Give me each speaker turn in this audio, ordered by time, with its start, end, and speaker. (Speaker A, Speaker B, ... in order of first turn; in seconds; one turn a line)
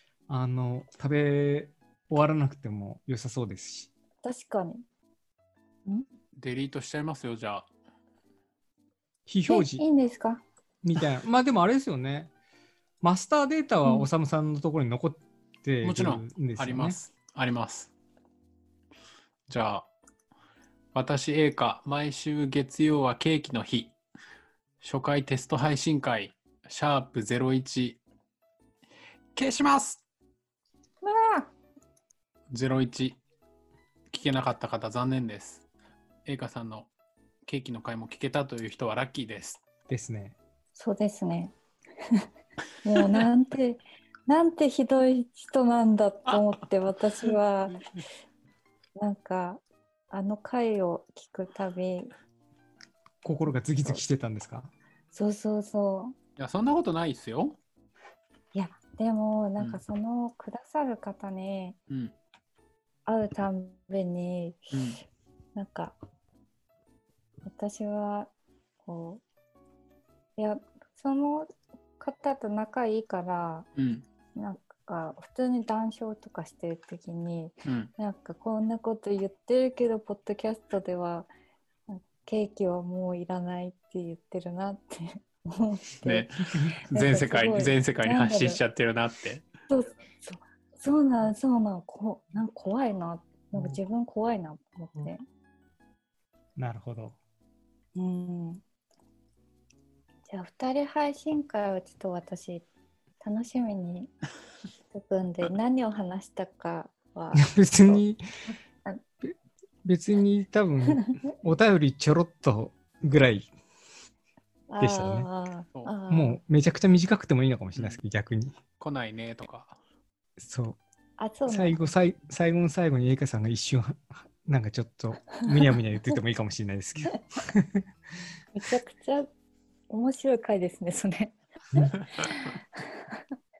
Speaker A: 0.3-3.9
Speaker B: 4.2-4.8
Speaker C: 6.4-7.7
Speaker A: 9.3-9.8
Speaker B: 9.5-10.4
Speaker A: 10.8-12.3
Speaker A: 13.0-17.0
Speaker B: 13.8-14.1
Speaker C: 15.8-17.9
Speaker C: 19.5-19.9
Speaker C: 20.9-23.9
Speaker C: 24.8-28.0
Speaker C: 29.3-30.0
Speaker B: 31.0-31.5
Speaker C: 32.5-33.2
Speaker C: 34.1-35.6
Speaker C: 36.2-36.9
Speaker C: 37.5-39.6
Speaker A: 39.9-40.4
Speaker B: 40.8-41.5
Speaker B: 42.8-47.8
Speaker B: 49.0-52.1
Speaker A: 53.2-54.7
Speaker B: 53.8-54.0
Speaker B: 55.1-56.1
Speaker C: 56.4-57.6
Speaker B: 58.5-61.8
Speaker C: 61.9-62.1
Speaker B: 63.0-64.6
Speaker C: 64.7-65.0
Speaker B: 65.5-66.0
Speaker B: 67.4-68.3
Speaker B: 68.8-69.2
Speaker B: 70.4-73.7
Speaker C: 73.8-74.0
Speaker B: 74.3-81.3
Speaker C: 77.6-77.9
Speaker B: 81.9-86.3
Speaker C: 86.0-89.5
Speaker B: 86.9-88.6
Speaker B: 89.7-95.2
Speaker A: 96.6-97.2
Speaker B: 97.9-98.6
Speaker B: 100.3-102.6
Speaker B: 103.2-104.1
Speaker B: 104.9-108.0
Speaker A: 107.3-108.2
Speaker A: 109.2-113.5
Speaker B: 114.7-116.4
Speaker A: 114.8-115.3
Speaker A: 116.1-118.6
Speaker C: 117.8-118.0
Speaker C: 118.8-119.8
Speaker A: 120.4-120.8
Speaker B: 121.2-121.8
Speaker A: 121.5-127.8
Speaker B: 128.5-129.3
Speaker B: 129.9-133.2